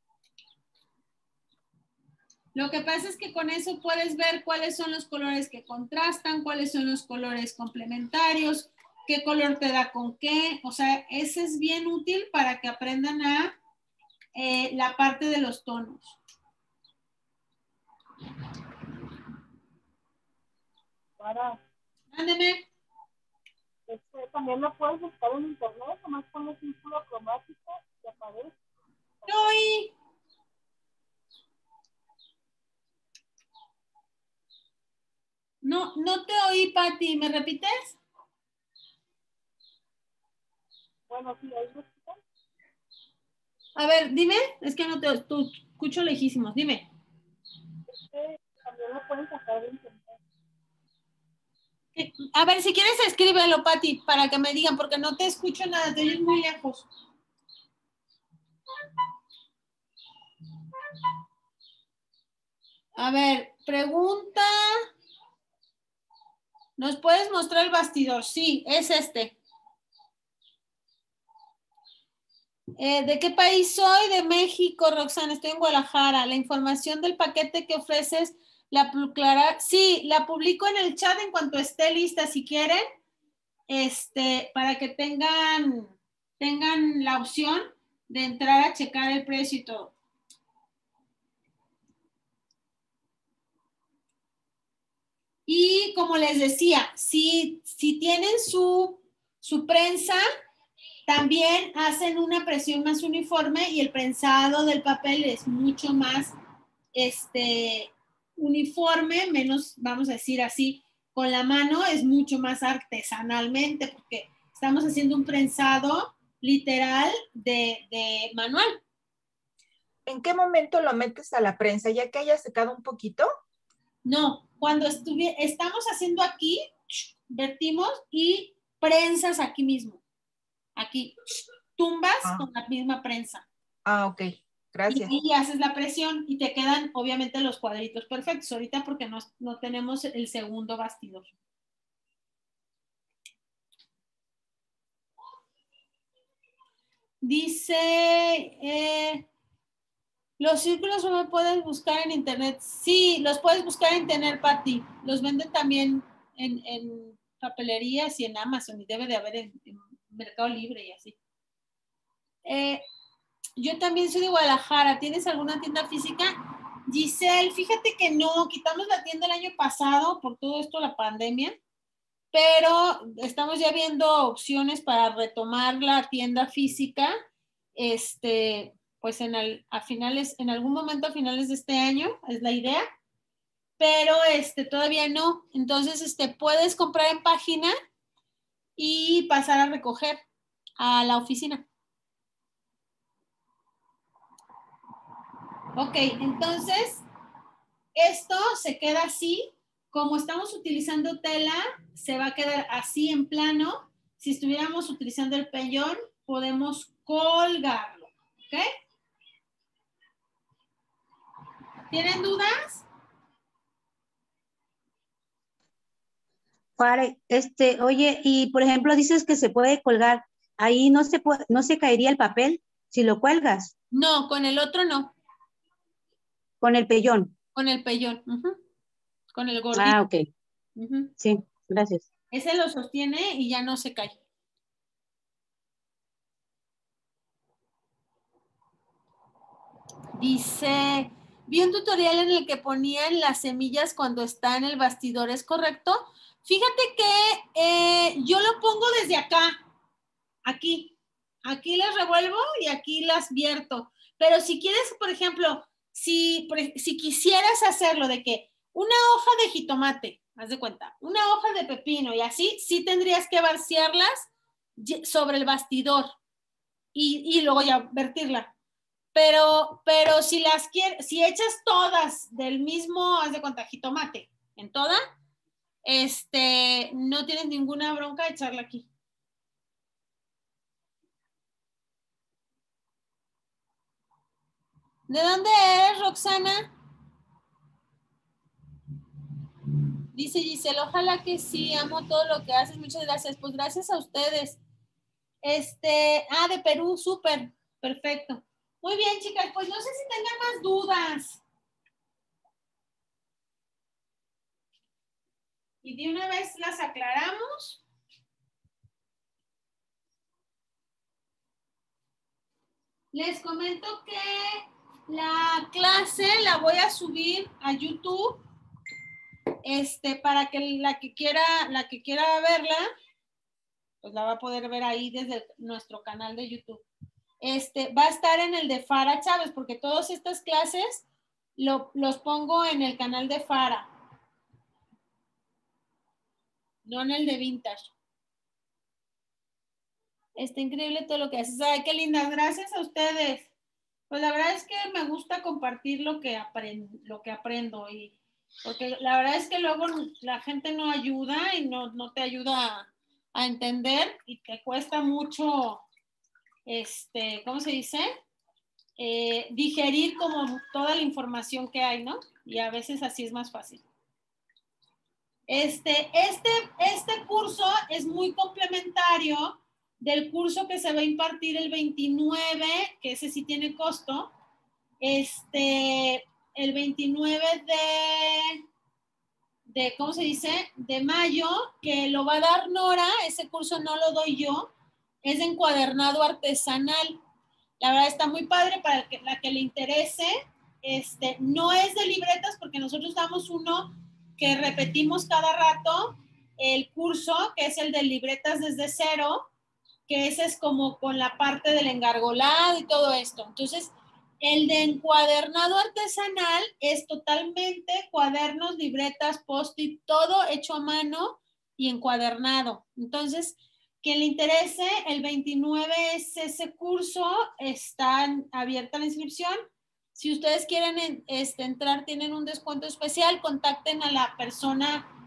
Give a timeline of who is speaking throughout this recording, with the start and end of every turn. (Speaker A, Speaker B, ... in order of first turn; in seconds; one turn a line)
Speaker A: 2.5-13.6
Speaker A: 14.3-16.2
Speaker B: 21.2-21.6
Speaker A: 22.1-22.6
Speaker B: 23.9-28.5
Speaker B: 29.2-29.5
Speaker A: 29.3-29.9
Speaker A: 35.6-38.0
Speaker B: 41.1-42.1
Speaker A: 43.8-46.9
Speaker B: 47.9-50.2
Speaker A: 52.0-56.9
Speaker A: 63.0-64.8
Speaker A: 66.8-69.3
Speaker A: 72.8-82.8
Speaker A: 83.7-89.9
Speaker A: 95.5-100.2
Speaker A: 101.1-106.3
Speaker A: 106.9-118.8
Speaker C: 120.1-123.3
Speaker A: 124.0-130.0
Speaker A: 130.8-133.4
Speaker C: 133.8-135.1
Speaker A: 134.9-141.3
Speaker A: 147.2-149.2
Speaker A: 150.4-161.2
Speaker A: 162.4-162.8
Speaker A: 163.6-166.3
Speaker A: 166.9-171.6
Speaker A: 172.3-177.1
Speaker A: 177.8-182.8
Speaker A: 183.8-187.7
Speaker A: 188.8-190.2
Speaker A: 190.8-191.7
Speaker A: 195.8-197.0
Speaker A: 197.9-208.6
Speaker A: 211.9-212.8
Speaker D: 216.8-223.7
Speaker A: 223.9-225.1
Speaker D: 226.6-227.3
Speaker A: 227.5-228.6
Speaker A: 229.3-230.0
Speaker D: 229.7-230.2
Speaker A: 230.8-231.1
Speaker D: 231.2-232.1
Speaker A: 232.3-234.2
Speaker A: 240.1-249.6
Speaker A: 250.4-250.9
Speaker A: 251.4-266.1
Speaker A: 266.9-268.5
Speaker A: 269.1-275.0
Speaker A: 275.8-278.9
Speaker A: 285.1-286.7
Speaker A: 290.1-294.6
Speaker A: 295.4-301.4
Speaker A: 305.8-307.8
Speaker A: 313.1-318.4
Speaker A: 319.6-322.8
Speaker A: 324.0-326.8
Speaker A: 327.4-331.0
Speaker A: 331.6-333.9
Speaker A: 336.8-337.9
Speaker A: 340.4-343.5
Speaker A: 344.1-355.8
Speaker A: 356.6-358.1
Speaker A: 359.0-363.8
Speaker A: 365.5-374.3
Speaker A: 375.0-378.6
Speaker A: 379.7-384.7
Speaker A: 385.2-387.2
Speaker A: 387.8-390.3
Speaker A: 390.8-399.5
Speaker A: 400.1-425.1